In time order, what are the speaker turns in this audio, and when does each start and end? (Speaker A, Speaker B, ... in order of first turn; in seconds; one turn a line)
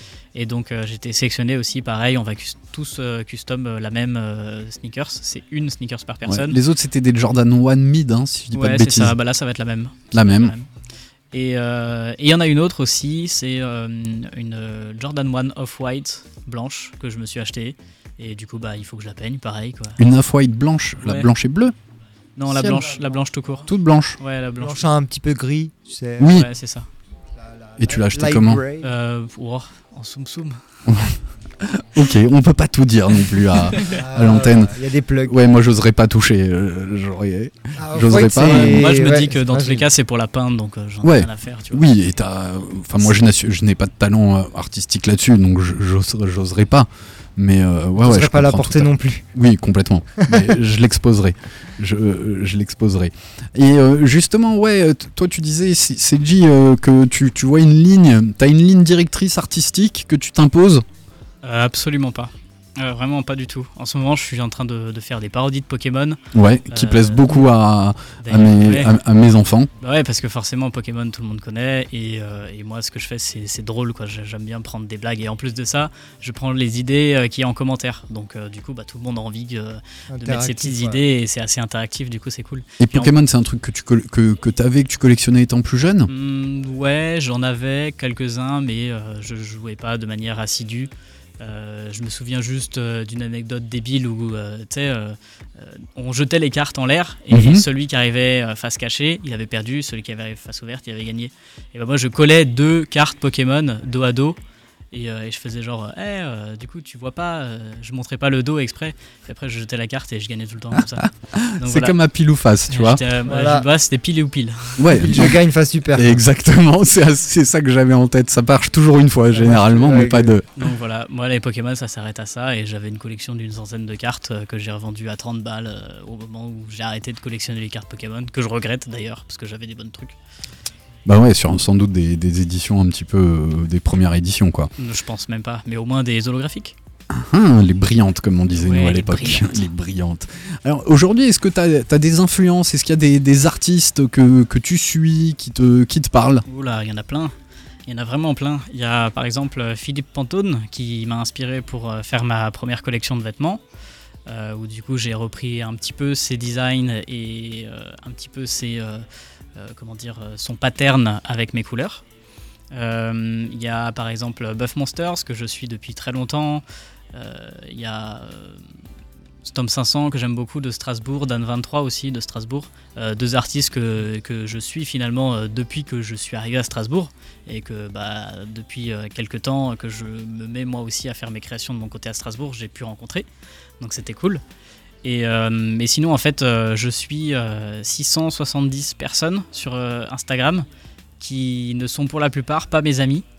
Speaker A: 0.3-6.6
Speaker B: 6.2-9.2
Speaker A: 8.5-10.7
Speaker B: 10.1-10.5
Speaker A: 11.3-20.0
Speaker B: 20.0-21.7
Speaker A: 21.0-21.3
Speaker A: 22.4-24.9
Speaker B: 22.5-22.9
Speaker B: 23.6-24.2
Speaker C: 24.6-26.3
Speaker B: 26.2-26.5
Speaker A: 26.2-26.9
Speaker C: 27.7-28.9
Speaker B: 27.8-28.6
Speaker A: 28.8-30.6
Speaker B: 30.9-38.9
Speaker C: 33.9-35.4
Speaker C: 37.8-39.8
Speaker A: 38.4-41.9
Speaker B: 41.0-60.9
Speaker C: 48.0-49.2
Speaker A: 61.4-66.2
Speaker B: 66.3-69.7
Speaker A: 66.7-67.5
Speaker A: 68.2-68.9
Speaker A: 69.8-83.1
Speaker C: 80.1-81.0
Speaker B: 82.8-86.1
Speaker A: 86.1-104.4
Speaker B: 97.3-97.6
Speaker A: 104.9-111.9
Speaker B: 110.8-113.0
Speaker A: 112.7-115.0
Speaker C: 113.3-113.7
Speaker B: 114.8-115.3
Speaker C: 114.9-116.2
Speaker B: 115.9-120.5
Speaker C: 119.3-120.3
Speaker A: 120.6-130.1
Speaker B: 131.1-134.7
Speaker A: 134.8-136.7
Speaker B: 137.1-146.4
Speaker A: 138.5-139.6
Speaker A: 146.5-147.3
Speaker A: 147.9-153.6
Speaker A: 154.3-159.0
Speaker A: 159.6-162.0
Speaker A: 162.7-168.6
Speaker A: 169.4-183.3
Speaker A: 183.8-184.4
Speaker A: 185.0-190.7
Speaker A: 191.2-193.2